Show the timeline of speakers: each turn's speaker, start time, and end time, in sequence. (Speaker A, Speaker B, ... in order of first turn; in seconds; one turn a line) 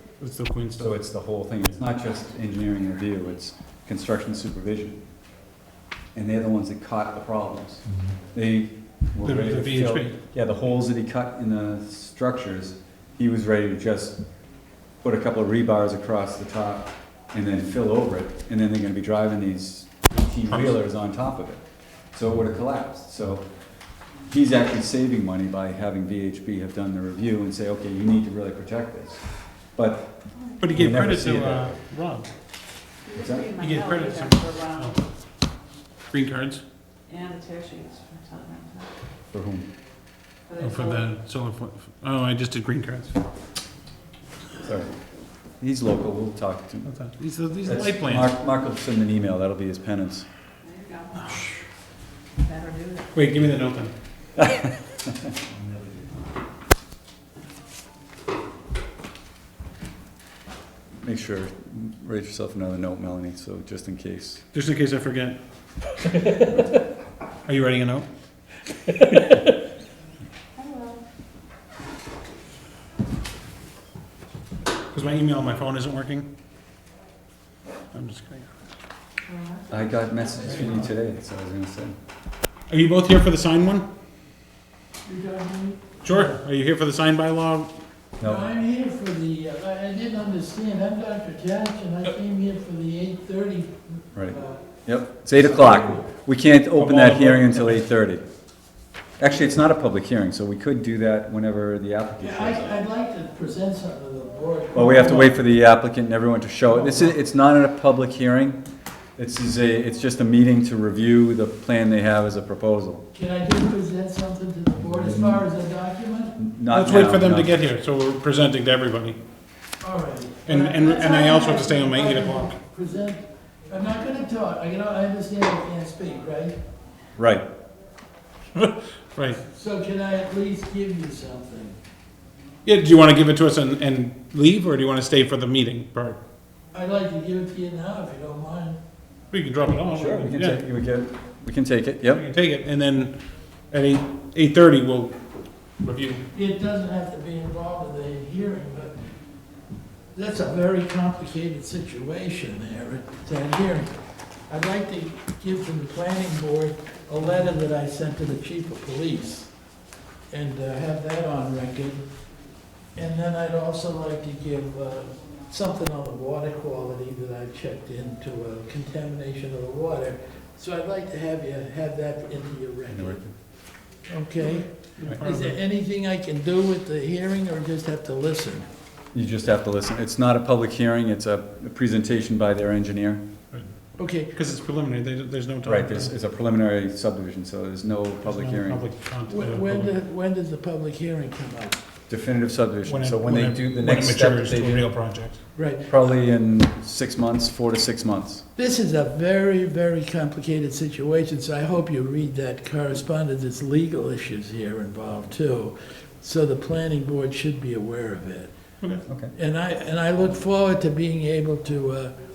Speaker A: 0.2-0.9
Speaker B: 0.8-5.0
Speaker B: 6.1-14.2
Speaker A: 9.2-10.2
Speaker B: 15.0-23.5
Speaker B: 24.2-31.8
Speaker A: 30.6-32.3
Speaker C: 33.0-34.9
Speaker B: 33.1-33.5
Speaker A: 33.6-35.0
Speaker A: 36.1-36.6
Speaker C: 37.1-38.9
Speaker B: 39.3-39.7
Speaker C: 40.5-41.0
Speaker A: 40.5-43.2
Speaker B: 44.6-45.0
Speaker B: 45.6-46.9
Speaker A: 46.9-48.3
Speaker B: 47.6-50.2
Speaker C: 50.6-51.4
Speaker C: 52.4-53.1
Speaker A: 53.1-53.9
Speaker B: 54.4-54.7
Speaker B: 61.0-64.4
Speaker A: 64.5-65.4
Speaker A: 67.4-68.1
Speaker C: 70.6-71.0
Speaker A: 74.9-76.3
Speaker A: 77.9-78.5
Speaker C: 79.3-80.5
Speaker B: 79.7-81.9
Speaker A: 82.7-83.9
Speaker D: 85.0-86.2
Speaker A: 86.0-87.7
Speaker B: 88.2-88.5
Speaker D: 88.2-94.6
Speaker B: 94.1-98.2
Speaker D: 95.3-96.0
Speaker A: 96.8-97.8
Speaker B: 99.2-102.7
Speaker D: 102.2-105.4
Speaker B: 104.7-108.6
Speaker D: 106.8-107.1
Speaker B: 109.2-113.0
Speaker D: 113.1-116.4
Speaker B: 114.9-115.4
Speaker B: 116.4-117.5
Speaker A: 116.7-119.2
Speaker D: 119.8-126.5
Speaker A: 120.5-122.6
Speaker B: 127.2-127.5
Speaker A: 128.5-129.4
Speaker D: 129.4-131.8
Speaker A: 132.6-136.2
Speaker D: 136.7-138.8
Speaker A: 139.3-140.6
Speaker B: 139.9-142.2
Speaker A: 142.1-143.2
Speaker A: 143.7-145.1
Speaker A: 145.8-146.2
Speaker D: 146.3-148.9
Speaker D: 150.1-153.9
Speaker D: 154.5-159.5
Speaker D: 160.3-162.1
Speaker D: 162.9-173.2
Speaker B: 172.9-173.3
Speaker D: 174.1-178.7
Speaker A: 175.0-175.5
Speaker B: 179.1-183.2
Speaker D: 184.0-184.3
Speaker A: 184.3-186.1
Speaker B: 185.6-188.8
Speaker A: 188.2-189.9
Speaker D: 189.3-191.8
Speaker B: 192.1-194.8
Speaker A: 192.8-195.4
Speaker D: 195.5-195.9
Speaker B: 195.9-198.4
Speaker D: 198.6-208.5
Speaker B: 209.1-209.3
Speaker D: 209.3-212.1